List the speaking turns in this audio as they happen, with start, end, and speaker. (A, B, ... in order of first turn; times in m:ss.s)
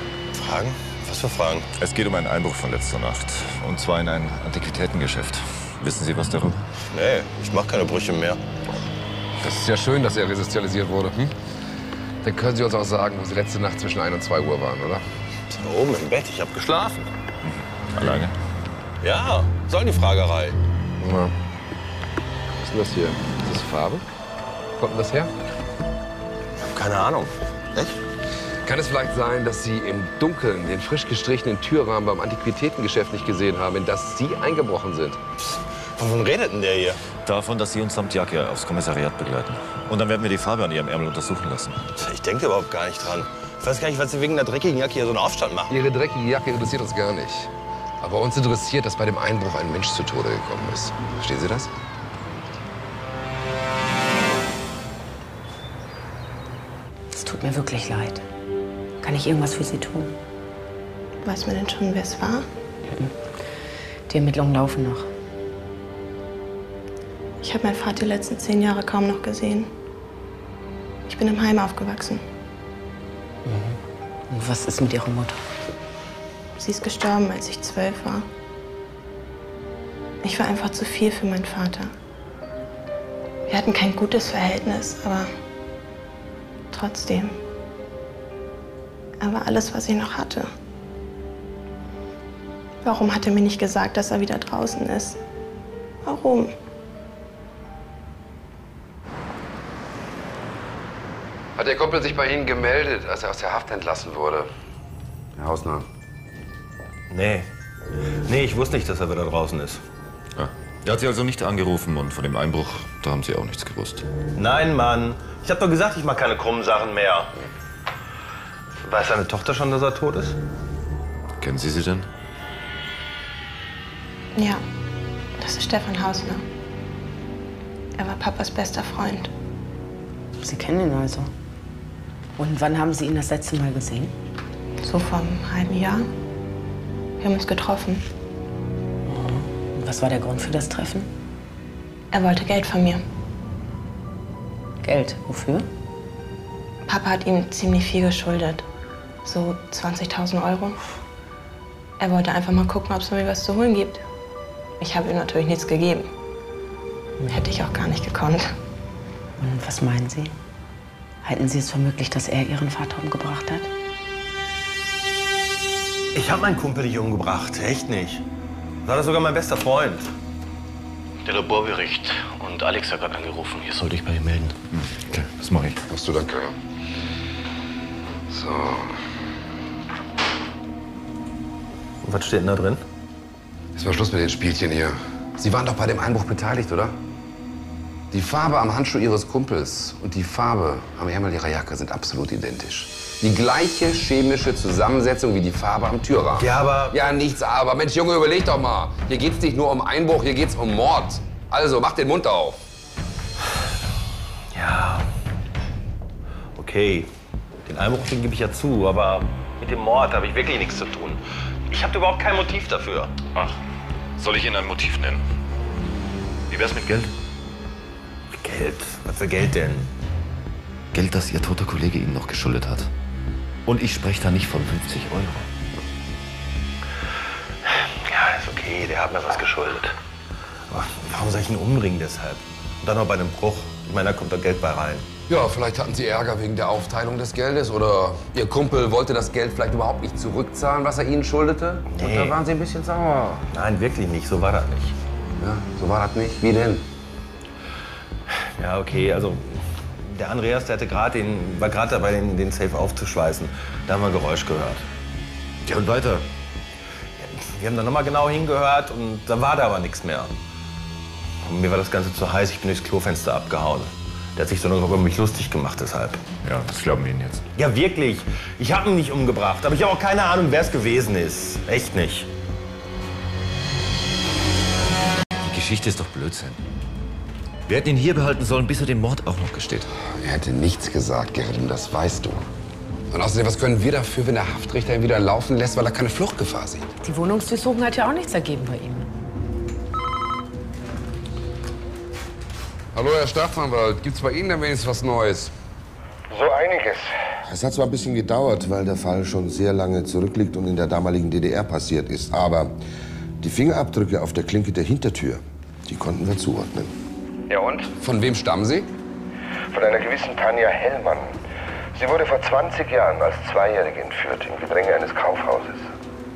0:00.3-0:01.7 A
0:01.8-0:06.6 B
0:06.9-0:08.4 A
0:09.4-0:11.3 C
0:12.2-0:15.0 C
0:15.5-0:17.1 A
0:18.0-0:18.3 B
0:19.0-0:20.6 A
0:21.0-0:21.3 C
0:22.6-0:24.0 C
0:24.8-0:25.3 C
0:26.7-0:28.0 A
0:28.6-0:35.2 C
0:36.0-0:37.0 A
0:37.2-0:41.9 B
0:42.0-0:45.8 A
0:45.7-0:51.7 C
0:57.1-0:58.2 D
0:59.0-1:00.1 D
1:01.2-1:02.4 E
1:02.9-1:03.1 D
1:04.1-1:05.1 D
1:07.4-1:09.7 E
1:11.1-1:12.2 E
1:13.4-1:13.8 D
1:14.3-1:15.4 D
1:16.6-1:18.2 E
1:20.2-1:21.9 E
1:23.5-1:25.3 E
1:26.7-1:27.4 E
1:29.2-1:30.5 E
1:32.8-1:35.2 E
1:36.0-1:36.5 E
1:41.6-1:44.5 C
1:45.4-1:45.8 C
1:47.1-1:47.5 A
1:48.2-1:49.8 A
1:50.4-1:54.0 B
1:54.4-1:57.3 A
1:58.8-2:00.4 A
2:01.4-2:02.1 B
2:04.3-2:04.6 E
2:05.4-2:06.4 E
2:07.9-2:09.3 E
2:10.4-2:11.3 D
2:12.4-2:14.1 D
2:14.8-2:16.1 E
2:17.2-2:18.1 E
2:19.1-2:21.1 D
2:22.1-2:23.0 E
2:24.8-2:25.6 D
2:26.8-2:28.6 E
2:29.2-2:30.8 E
2:32.0-2:34.0 E
2:34.8-2:36.1 E
2:37.2-2:38.5 E
2:39.4-2:40.3 D
2:41.2-2:43.7 D
2:46.1-2:48.2 A
2:48.8-2:50.1 A
2:51.2-2:54.5 F
2:54.7-2:55.8 B
2:55.9-2:56.5 C
2:58.3-2:58.9 C
3:02.0-3:02.8 A
3:03.7-3:07.0 C
3:08.1-3:22.6 C
3:16.4-3:17.0 A
3:24.5-3:25.1 A
3:26.6-3:27.1 A
3:27.6-3:33.1 A
3:34.2-3:35.2 B
3:36.5-3:37.1 B
3:38.3-3:39.9 A
3:40.9-3:42.9 B
3:43.6-3:45.5 B
3:48.0-3:49.9 A
3:50.7-3:55.0 A
3:55.3-4:03.4 C
4:01.9-4:02.4 A
4:03.5-4:04.9 A
4:05.4-4:06.8 C
4:08.6-4:14.9 A
4:15.6-4:16.3 B
4:17.2-4:20.3 A
4:21.4-4:26.2 A
4:26.4-4:27.4 B
4:27.5-4:32.3 A
4:35.4-4:36.6 B
4:37.7-4:39.9 B
4:40.1-4:42.4 C
4:43.1-4:46.8 C
4:47.0-4:49.1 D
4:52.9-4:55.5 C
4:56.3-4:57.1 G
4:57.4-5:02.8 H
5:03.4-5:06.9 H
5:07.5-5:08.9 C
5:09.7-5:11.4 G
5:12.0-5:15.8 G